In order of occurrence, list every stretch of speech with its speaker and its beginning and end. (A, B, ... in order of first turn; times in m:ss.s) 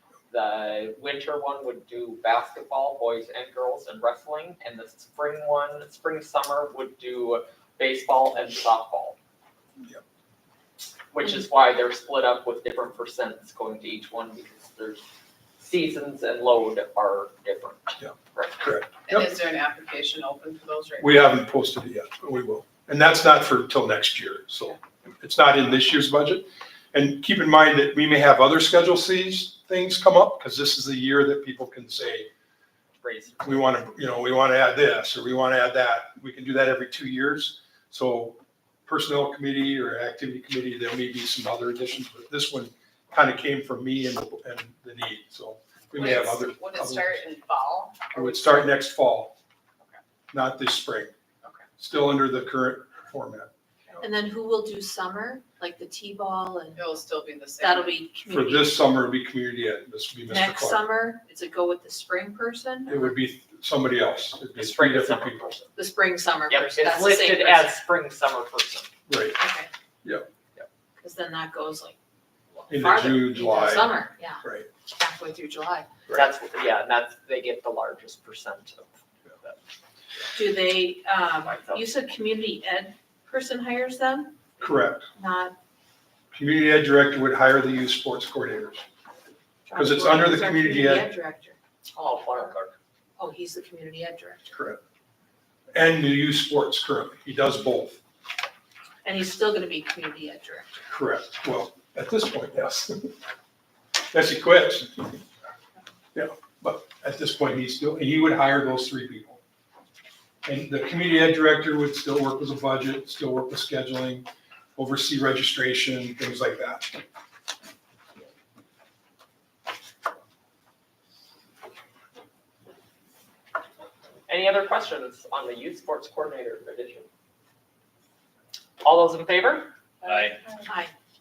0:00.3-0:09.2 A
0:11.1-0:15.0 A
0:15.6-0:18.7 A
0:18.0-0:19.2 B
0:19.0-0:21.2 C
0:21.0-0:32.3 B
0:33.0-0:33.7 A
0:33.4-0:47.2 B
0:46.0-0:48.6 C
0:48.1-0:49.4 B
0:50.3-0:51.1 B
0:51.8-0:53.5 B
0:54.0-0:56.8 D
0:56.8-0:58.1 C
0:57.6-0:58.8 D
0:58.3-1:00.8 B
1:00.3-1:03.1 D
1:02.9-1:05.5 B
1:04.6-1:05.7 A
1:05.8-1:07.7 D
1:06.5-1:08.9 A
1:09.1-1:09.4 B
1:09.4-1:09.7 D
1:11.0-1:12.0 D
1:12.6-1:15.9 D
1:12.7-1:14.7 B
1:16.1-1:19.6 A
1:20.4-1:24.4 D
1:21.4-1:22.0 A
1:24.6-1:25.1 B
1:25.2-1:25.6 D
1:26.3-1:28.8 B
1:29.7-1:31.6 D
1:29.7-1:31.1 B
1:32.0-1:32.8 A
1:33.2-1:34.6 D
1:34.5-1:34.8 B
1:35.7-1:38.0 B
1:39.0-1:40.9 D
1:40.9-1:43.1 B
1:44.1-1:45.2 B
1:46.2-1:49.4 B
1:50.4-1:57.0 B
2:04.3-2:07.1 A
2:08.8-2:09.7 A
2:10.7-2:10.9 D